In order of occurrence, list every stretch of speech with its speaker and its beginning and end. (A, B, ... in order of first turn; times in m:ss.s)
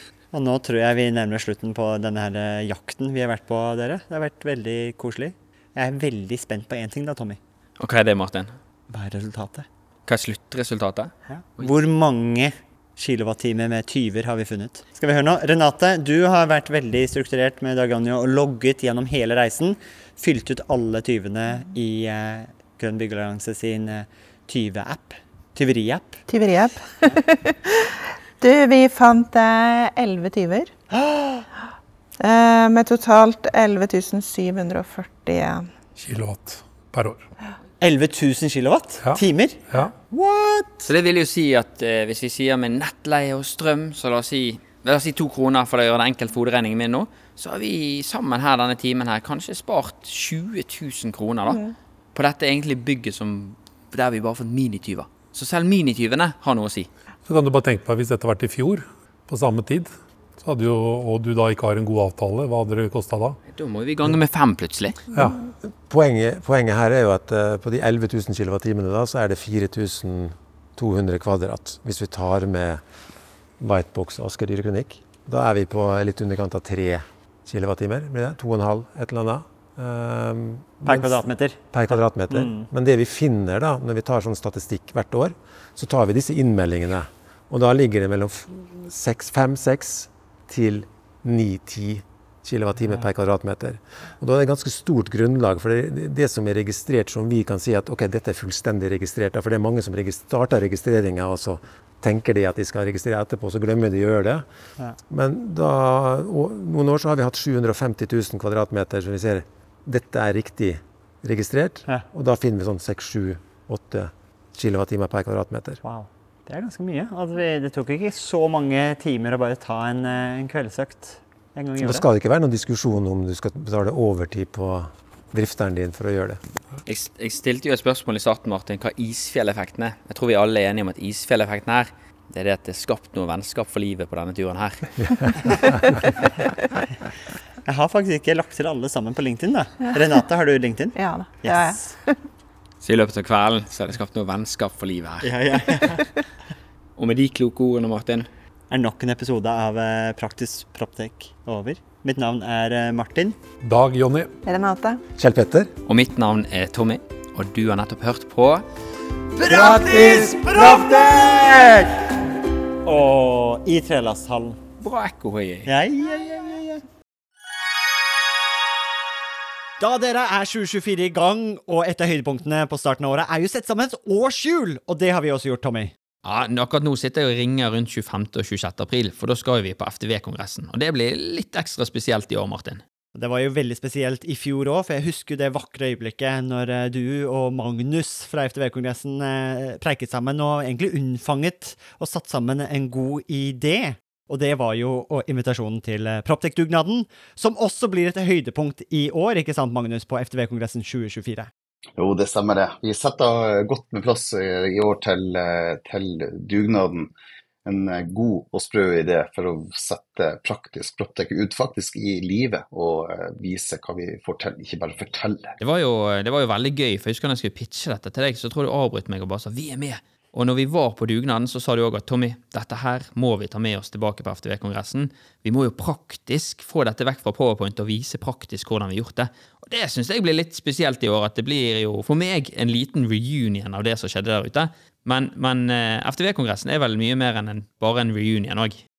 0:00.3-0:07.4 A
0:07.8-0:08.5 B
0:08.9-0:09.6 A
0:10.1-0:11.1 B
0:11.3-0:26.2 A
0:26.3-0:30.7 C
0:30.9-0:31.4 A
0:32.2-0:35.7 C
0:36.0-0:37.2 D
0:37.8-0:40.9 A
0:39.0-0:39.9 D
0:40.9-0:56.9 B
0:57.3-1:03.4 D
1:03.5-1:05.0 B
1:05.8-1:12.8 E
1:13.6-1:44.4 E
1:20.9-1:21.6 A
1:22.3-1:22.7 A
1:45.1-1:55.8 E
1:55.8-2:02.0 A
2:01.8-2:06.4 E
2:06.8-2:15.6 B
2:17.6-2:21.9 A
2:20.9-2:22.2 C
2:22.8-2:26.0 B
2:25.2-2:26.1 A
2:27.0-2:28.3 B
2:28.7-2:33.4 A
2:33.6-2:34.3 D
2:34.4-2:35.0 C
2:35.2-2:35.7 E
2:35.8-2:38.6 B
2:39.4-2:41.8 A
2:39.4-2:41.8 E
2:42.8-2:44.6 A
2:44.8-2:45.7 B
2:45.6-2:46.8 A
2:49.8-2:55.9 A
2:56.2-3:02.8 B
3:03.1-3:21.5 A
3:22.0-3:27.1 F
3:27.6-3:35.6 F
3:35.6-3:58.8 B